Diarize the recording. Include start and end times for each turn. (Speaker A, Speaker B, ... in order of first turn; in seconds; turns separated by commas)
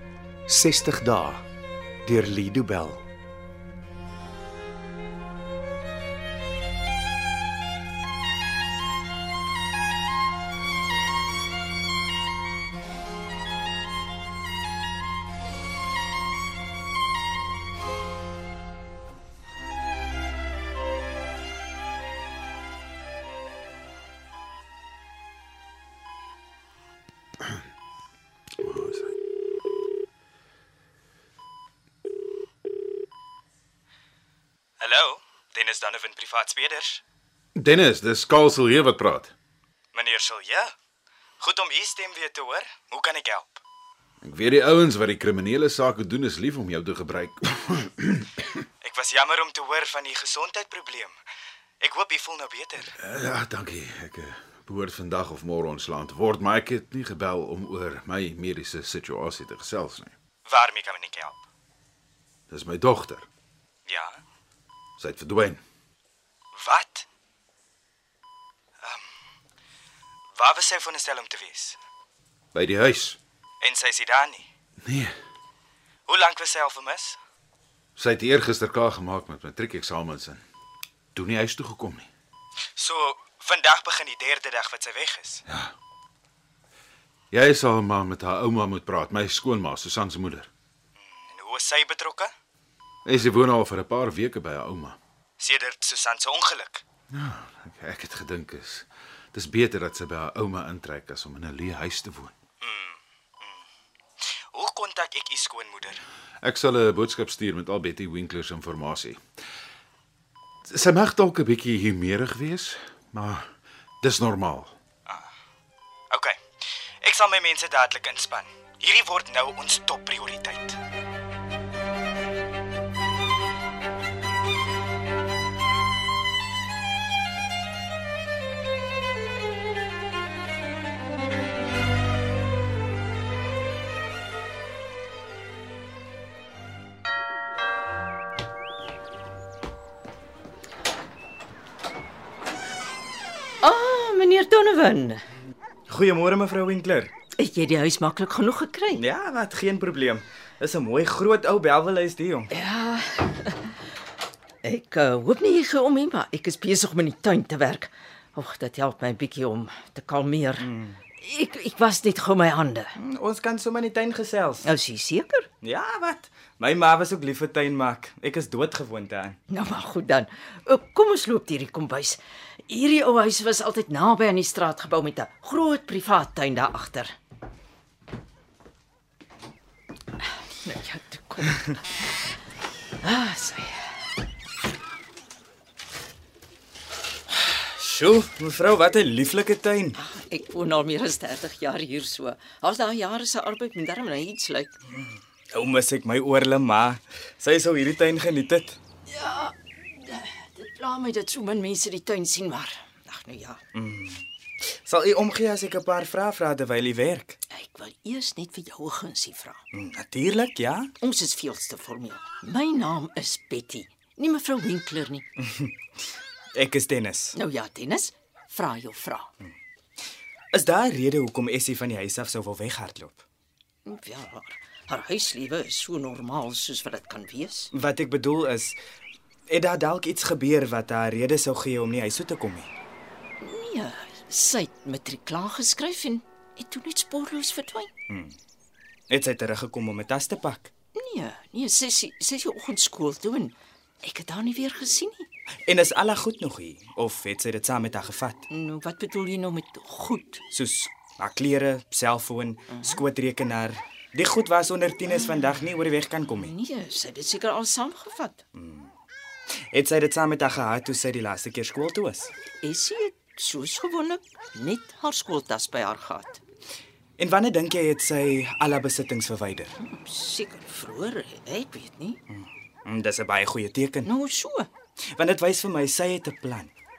Speaker A: 0.5-1.4, Speaker A: 2.0-3.0, Speaker B: 28.6-29.1, Speaker C: 34.8-37.0, Speaker B: 37.5-39.3, Speaker C: 39.9-40.7, Speaker C: 41.4-43.6, Speaker B: 44.2-48.4, Speaker C: 48.8-51.1, Speaker C: 51.8-52.9, Speaker B: 53.0-60.1, Speaker C: 60.5-61.4, Speaker B: 62.5-63.2, Speaker C: 63.9-64.2, Speaker B: 65.0-65.6, Speaker C: 66.5-67.1, Speaker C: 70.4-71.8, Speaker B: 72.5-73.2, Speaker C: 73.6-74.5, Speaker B: 74.8-75.1, Speaker C: 76.1-77.2, Speaker B: 78.0-80.4, Speaker B: 81.1-82.1, Speaker C: 82.8-85.4, Speaker B: 87.3-90.5, Speaker C: 91.3-92.3, Speaker B: 93.0-95.0, Speaker C: 95.4-96.8, Speaker B: 97.1-102.3, Speaker C: 102.6-103.6, Speaker C: 104.5-106.0, Speaker B: 106.4-109.2, Speaker B: 110.7-113.5, Speaker B: 114.0-114.7, Speaker C: 116.1-116.3, Speaker C: 117.0-120.8, Speaker D: 143.6-145.2, Speaker C: 145.9-147.1, Speaker D: 147.4-149.0, Speaker C: 148.9-152.5, Speaker D: 152.5-153.6, Speaker D: 154.6-160.7, Speaker C: 160.6-161.0, Speaker D: 161.2-162.9, Speaker C: 163.0-164.7, Speaker D: 164.6-165.5, Speaker C: 165.6-169.4, Speaker D: 169.5-177.1, Speaker D: 180.6-181.7, Speaker D: 183.0-183.8, Speaker C: 187.3-190.0, Speaker D: 190.0-194.7, Speaker C: 194.9-198.8, Speaker D: 199.1-203.6, Speaker C: 203.7-204.2, Speaker C: 204.8-207.4, Speaker D: 207.5-209.6, Speaker C: 209.7-210.9, Speaker D: 211.0-215.2, Speaker C: 215.4-215.7, Speaker C: 216.5-217.3, Speaker D: 217.3-219.3, Speaker C: 220.5-223.2, Speaker D: 223.8-227.7, Speaker C: 227.7-228.7, Speaker C: 229.5-232.7, Speaker D: 233.4-237.9, Speaker C: 238.1-238.3, Speaker C: 239.1-240.7, Speaker D: 240.9-245.3, Speaker C: 245.7-248.4, Speaker D: 248.5-250.4, Speaker C: 250.5-256.5, Speaker D: 252.7-253.0, Speaker D: 255.1-255.4, Speaker D: 256.4-258.4, Speaker C: 258.6-258.9, Speaker C: 259.7-262.3, Speaker D: 262.6-266.4, Speaker C: 267.2-269.7, Speaker D: 269.8-272.2, Speaker C: 272.3-274.1, Speaker D: 274.1-274.7, Speaker C: 275.1-276.7